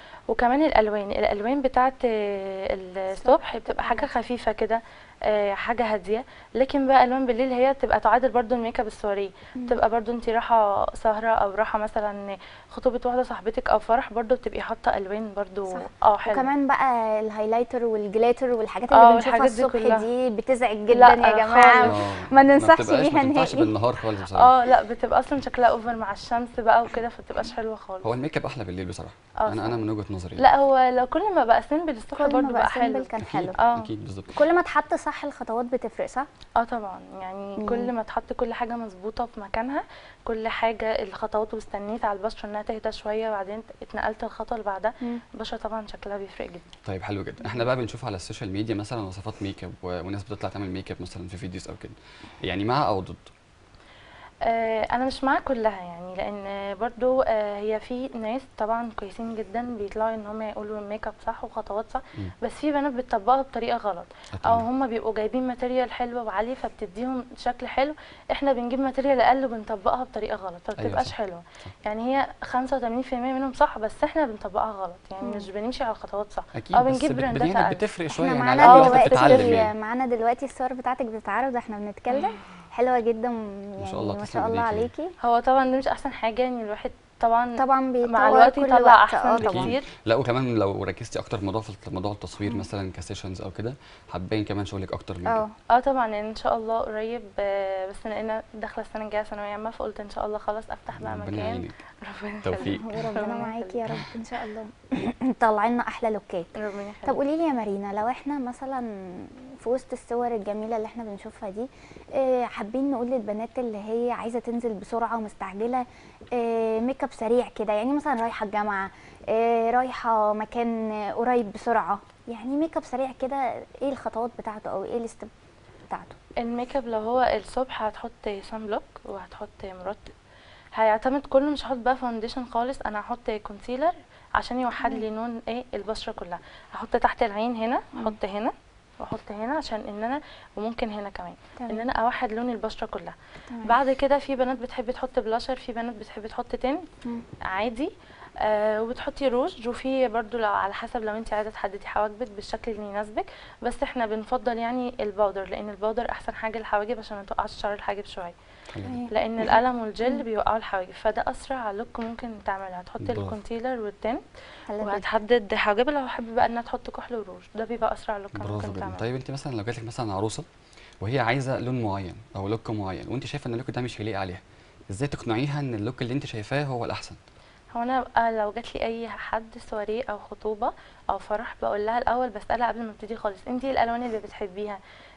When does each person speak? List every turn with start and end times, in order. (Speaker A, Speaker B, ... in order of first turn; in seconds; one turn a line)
Speaker A: 0.3-16.5
Speaker B: 3.2-4.1
Speaker B: 15.7-23.7
Speaker A: 18.9-20.1
Speaker A: 20.9-22.0
Speaker C: 21.9-24.5
Speaker A: 24.3-28.1
Speaker C: 28.0-30.5
Speaker A: 29.4-29.8
Speaker A: 30.4-33.9
Speaker B: 32.1-33.6
Speaker C: 33.2-34.4
Speaker B: 34.3-36.3
Speaker A: 36.6-46.8
Speaker B: 37.6-37.9
Speaker C: 46.9-53.3
Speaker A: 54.5-77.8
Speaker C: 64.4-64.7
Speaker C: 70.8-71.1
Speaker B: 75.2-75.5
Speaker C: 76.5-79.7
Speaker B: 78.1-85.1
Speaker A: 78.6-79.5
Speaker A: 82.1-82.5
Speaker C: 83.8-84.9
Speaker A: 85.2-89.9
Speaker B: 87.6-89.7
Speaker C: 89.4-95.4
Speaker B: 95.2-95.5
Speaker A: 95.7-103.8
Speaker C: 101.0-101.7
Speaker C: 102.4-102.9
Speaker B: 102.6-125.3
Speaker A: 106.5-107.2
Speaker B: 125.9-126.2
Speaker A: 126.4-130.1
Speaker A: 130.8-146.9
Speaker B: 134.8-135.1
Speaker B: 141.6-141.8
Speaker B: 143.5-143.8
Speaker A: 147.5-158.3
Speaker C: 158.8-159.0
Speaker B: 158.8-160.2
Speaker A: 159.1-164.2
Speaker C: 163.0-163.3
Speaker B: 164.7-165.1
Speaker A: 164.8-169.0
Speaker C: 168.4-170.5
Speaker C: 171.0-177.2
Speaker A: 177.7-184.8